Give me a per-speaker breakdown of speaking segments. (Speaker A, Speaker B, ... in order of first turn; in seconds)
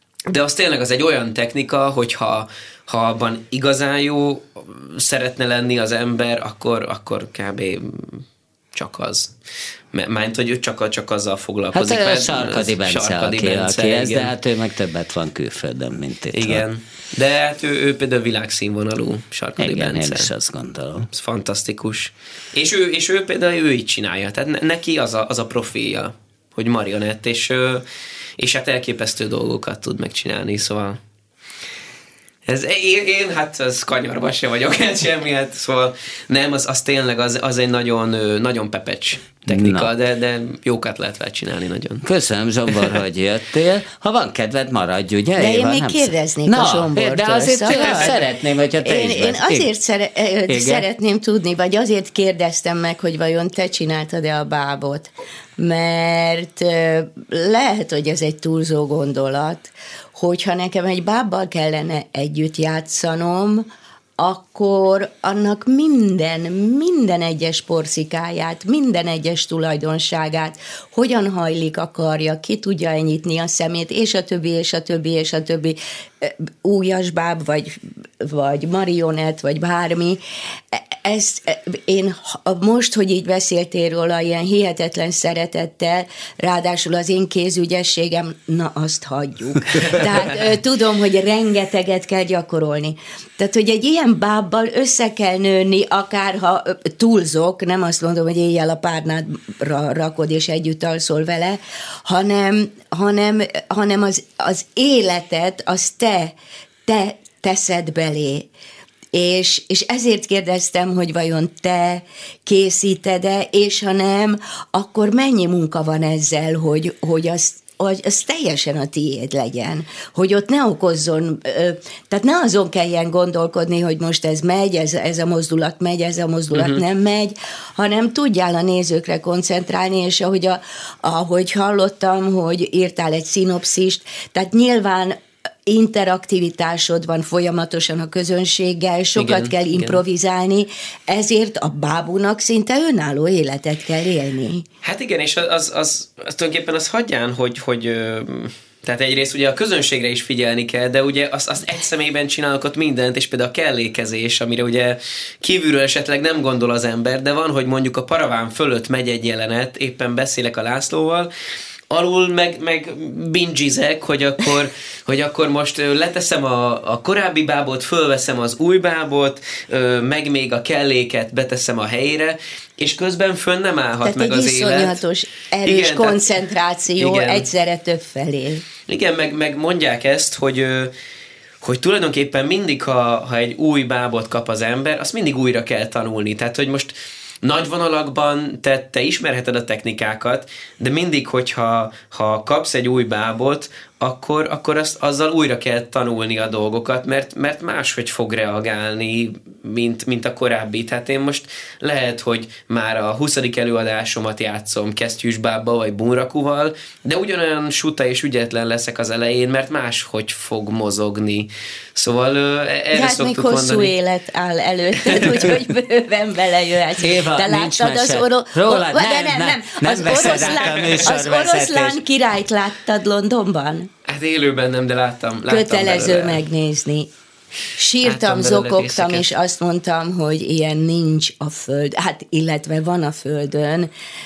Speaker A: 0.3-9.3, 9.9-14.3, 16.3-20.3, 21.1-27.8, 28.4-31.0, 32.5-42.0, 47.7-48.2, 126.5-126.8, 139.2-140.0, 144.8-161.3, 161.9-175.0, 175.6-176.3, 177.0-177.4, 178.9-180.9, 181.6-213.9, 215.1-215.6, 220.2-221.1, 224.1-226.4, 228.0-229.3
Speaker B: 11.7-16.6, 19.6-21.1, 39.5-39.9, 42.0-49.7, 50.5-50.9, 217.0-222.0
Speaker C: 45.4-48.1, 48.8-63.7, 64.2-80.2, 80.7-106.3, 106.8-108.5, 109.1-144.7, 174.0-178.6, 212.9-223.9, 225.5-227.1, 227.8-233.9